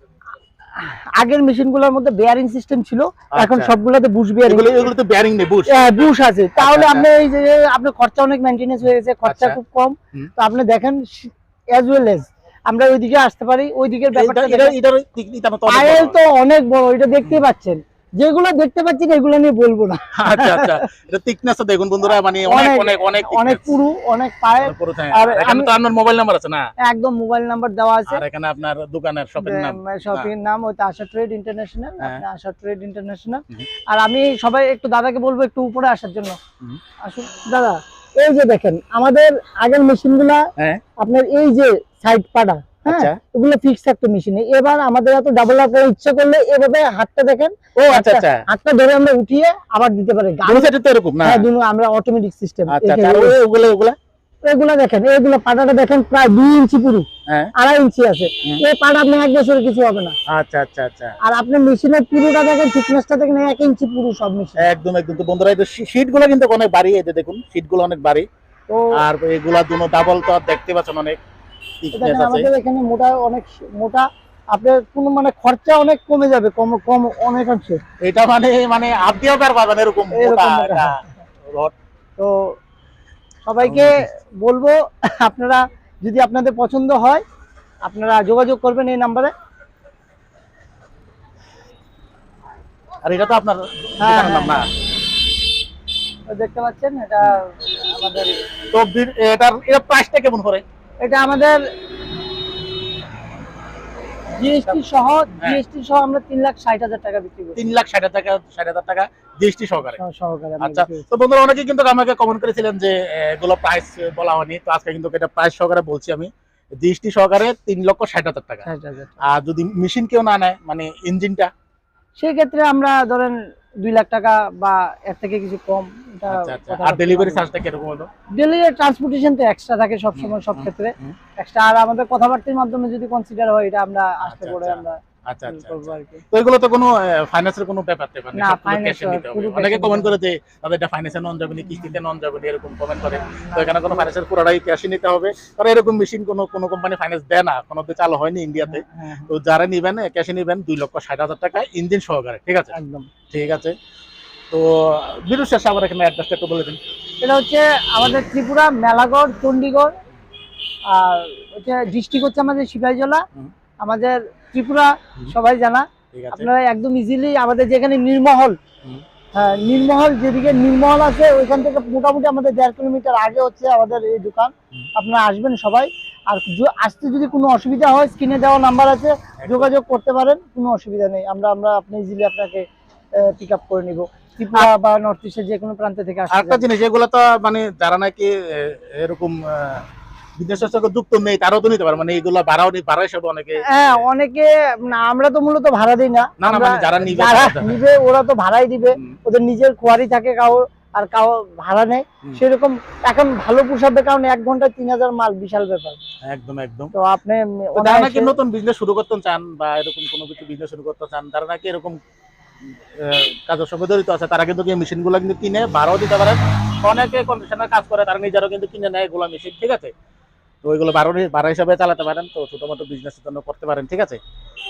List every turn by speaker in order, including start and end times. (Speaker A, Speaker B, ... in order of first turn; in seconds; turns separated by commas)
Speaker A: 0.8-4.9, Speaker B: 3.3-3.8, Speaker B: 4.5-5.9, Speaker A: 5.7-14.8, Speaker B: 6.6-7.1, Speaker B: 9.2-9.6, Speaker B: 14.1-16.2, Speaker A: 15.7-20.9, Speaker B: 20.2-23.7, Speaker A: 22.4-25.7, Speaker B: 24.6-26.7, Speaker A: 26.8-28.2, Speaker B: 28.1-30.3, Speaker A: 29.4-36.4, Speaker A: 37.0-50.7, Speaker B: 40.6-40.8, Speaker B: 42.9-43.2, Speaker B: 47.8-48.4, Speaker B: 50.5-51.5, Speaker A: 51.2-53.4, Speaker B: 52.7-54.0, Speaker A: 54.4-60.2, Speaker B: 60.3-61.2, Speaker A: 61.2-64.6, Speaker B: 64.6-68.3, Speaker A: 68.7-69.0, Speaker B: 69.0-71.2, Speaker B: 71.8-72.5, Speaker A: 72.0-77.8, Speaker B: 78.0-81.7, Speaker A: 80.1-81.0, Speaker A: 82.2-82.6, Speaker A: 83.5-87.2, Speaker B: 83.6-84.0, Speaker A: 87.8-89.3, Speaker B: 93.0-94.7, Speaker A: 94.0-94.6, Speaker A: 96.3-98.4, Speaker B: 98.7-100.6, Speaker A: 101.0-101.6, Speaker A: 104.4-107.6, Speaker B: 107.6-110.0, Speaker A: 110.0-111.1, Speaker B: 110.6-118.7, Speaker A: 118.7-119.1, Speaker B: 119.2-121.5, Speaker A: 122.2-127.5, Speaker B: 126.3-128.1, Speaker A: 128.4-136.2, Speaker B: 130.2-131.2, Speaker B: 134.2-152.7, Speaker A: 138.3-140.1, Speaker A: 143.0-144.1, Speaker A: 148.7-149.3, Speaker A: 152.7-153.1, Speaker B: 153.3-153.8, Speaker B: 154.5-156.8, Speaker A: 157.2-159.9, Speaker A: 160.9-163.2, Speaker A: 163.8-168.6, Speaker B: 166.1-166.5, Speaker A: 169.3-182.7, Speaker B: 179.4-179.7, Speaker A: 183.2-186.7, Speaker B: 186.3-189.9, Speaker B: 190.4-194.1, Speaker A: 193.7-206.0, Speaker B: 196.4-197.8, Speaker B: 206.3-206.9, Speaker A: 206.9-208.3, Speaker B: 207.8-212.0, Speaker B: 212.9-219.9, Speaker B: 220.6-224.2